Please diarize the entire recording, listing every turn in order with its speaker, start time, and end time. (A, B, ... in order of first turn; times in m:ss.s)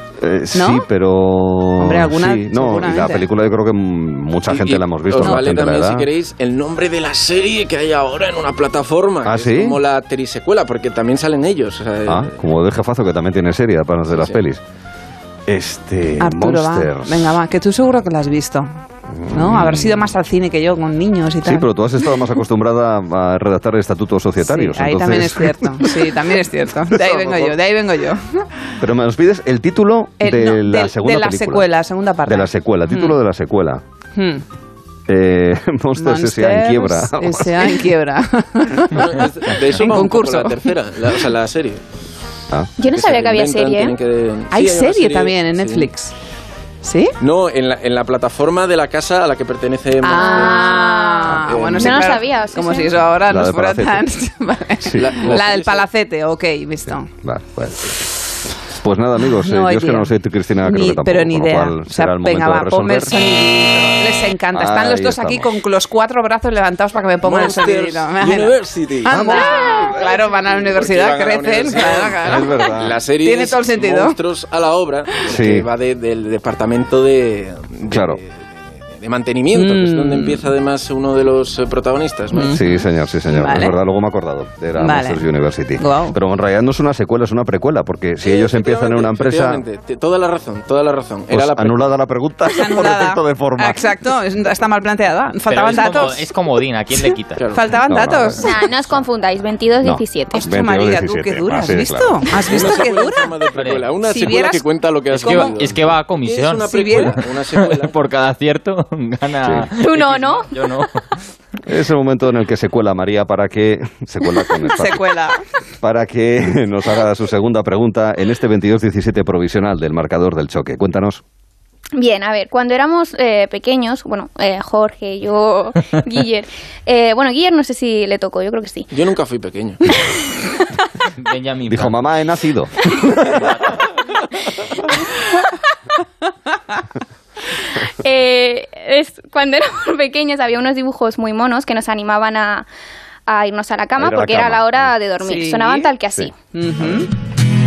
0:00.2-0:06.1 A
0:00.5-0:00.9 B
0:01.8-0:03.3 B
0:04.5-0:12.3 C
0:05.2-0:05.5 B
0:09.2-0:09.8 A
0:12.1-0:14.6 A
0:14.1-0:14.4 C
0:15.5-0:17.3 A
0:16.2-0:18.8 B
0:19.1-0:20.1 A
0:19.3-0:21.7 B
0:21.4-0:25.9 A
0:24.4-0:28.7 B
0:26.9-0:27.6 A
0:28.8-0:31.7 A
0:30.2-0:33.2 B
0:32.3-0:33.8 A
0:34.2-0:34.4 B
0:35.1-0:37.8 A
0:36.0-0:40.7 B
0:38.9-0:41.8 C
0:42.8-0:44.0 D
0:42.9-0:45.9 C
0:44.5-0:46.1 B
0:46.8-0:47.2 B
0:47.2-0:50.7 C
0:50.0-0:57.1 B
0:50.1-0:53.0 D
0:51.4-0:52.1 C
0:53.3-0:54.0 A
0:54.8-0:55.4 A
0:55.0-0:55.9 C
0:57.2-0:58.0 A
0:58.7-1:03.1 A
0:59.3-1:14.2 B
1:04.5-1:05.5 A
1:07.2-1:09.5 C
1:09.1-1:10.1 A
1:10.5-1:22.6 C
1:12.2-1:13.0 A
1:15.3-1:15.7 A
1:17.9-1:18.2 A
1:19.5-1:20.5 B
1:22.3-1:22.7 B
1:22.5-1:29.6 A
1:23.3-1:23.8 B
1:24.8-1:25.2 B
1:25.8-1:26.2 B
1:28.2-1:31.8 C
1:31.3-1:33.9 A
1:32.5-1:36.3 B
1:35.5-1:37.4 E
1:37.4-1:37.8 C
1:37.5-1:38.6 B
1:37.9-1:38.4 A
1:38.4-1:40.5 D
1:39.8-1:42.2 A
1:40.3-1:43.4 B
1:42.4-1:47.9 C
1:43.6-1:43.9 E
1:44.0-1:45.6 B
1:45.1-1:51.0 E
1:46.6-1:47.2 B
1:49.4-1:49.7 A
1:49.8-1:50.5 D
1:51.7-1:55.0 A
1:54.6-1:55.4 B
1:55.8-2:01.2 A
2:02.0-2:08.9 D
2:08.9-2:09.8 C
2:11.2-2:12.0 E
2:11.7-2:13.4 A
2:17.9-2:22.7 D
2:23.3-2:26.3 D
2:24.0-2:24.9 A
2:25.2-2:25.9 B
2:26.5-2:27.1 B